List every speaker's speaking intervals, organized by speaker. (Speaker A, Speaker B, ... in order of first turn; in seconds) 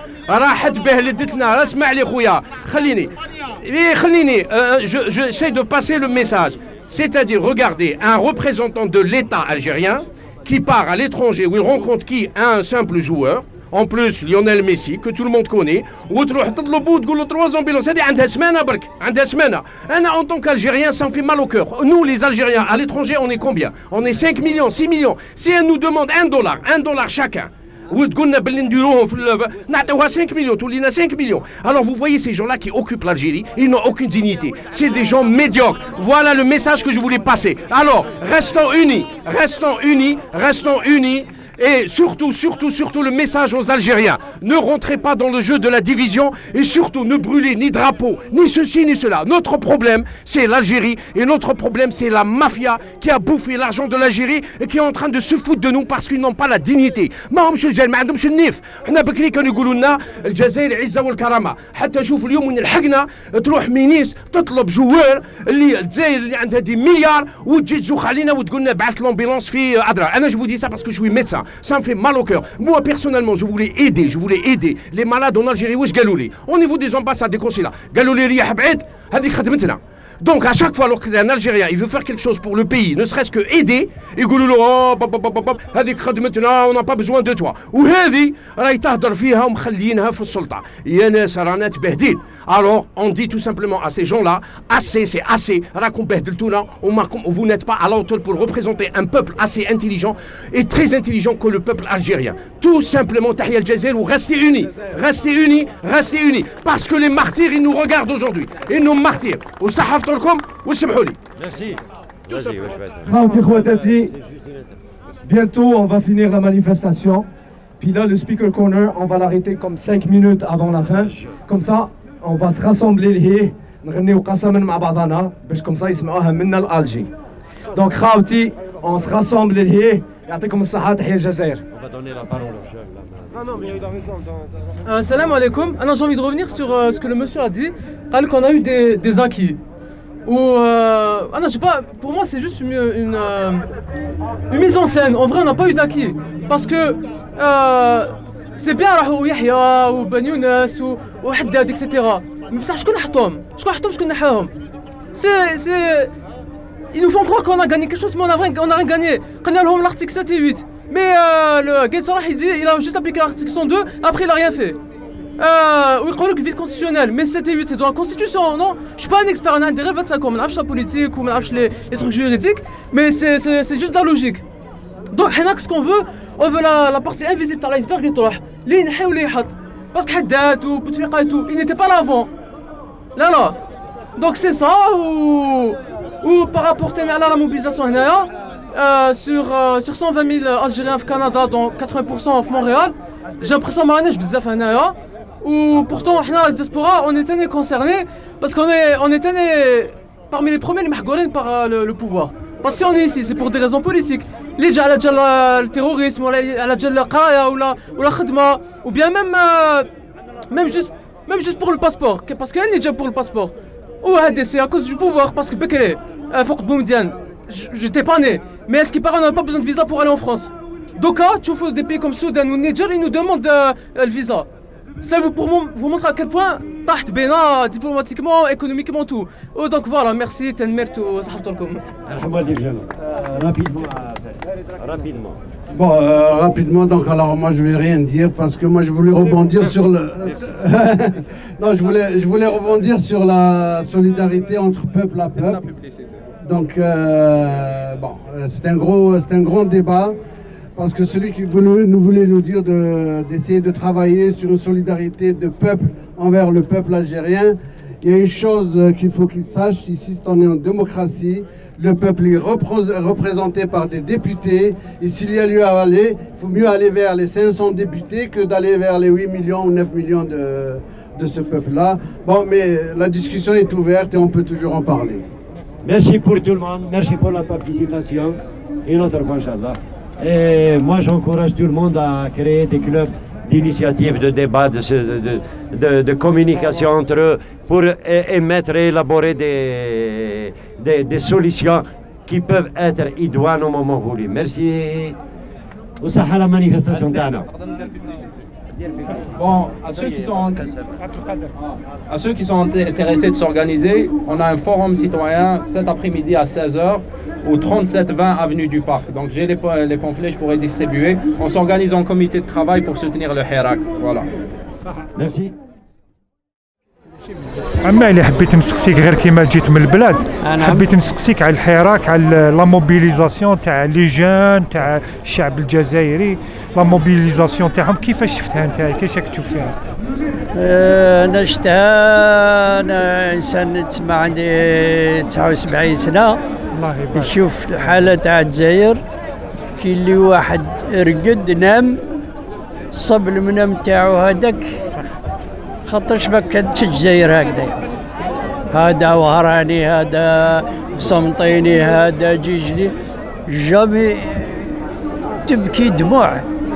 Speaker A: 0.3-111.2
Speaker B: 111.4-114.8, 131.7-134.0, 232.1-235.4, 275.8-295.2, 296.0-297.5, 315.2-315.5
Speaker C: 113.1-114.1, 115.2-117.3, 117.8-127.1, 127.7-131.6
Speaker D: 134.9-139.6, 140.3-143.7, 144.5-154.5, 155.1-156.1, 156.9-164.8, 165.4-174.4, 175.1-182.3, 183.2-183.6, 184.2-209.9, 210.5-224.5, 225.0-231.8
Speaker E: 235.7-245.7, 246.4-250.2, 250.8-275.2
Speaker F: 245.4-245.9, 298.8-300.9, 302.1-314.3
Speaker G: 317.7-329.8, 336.7-337.4
Speaker H: 320.4-320.9, 330.5-336.4, 337.1-339.0, 339.8-342.0, 342.9-344.7, 345.9-347.8, 348.7-352.9, 353.5-354.8, 355.4-356.5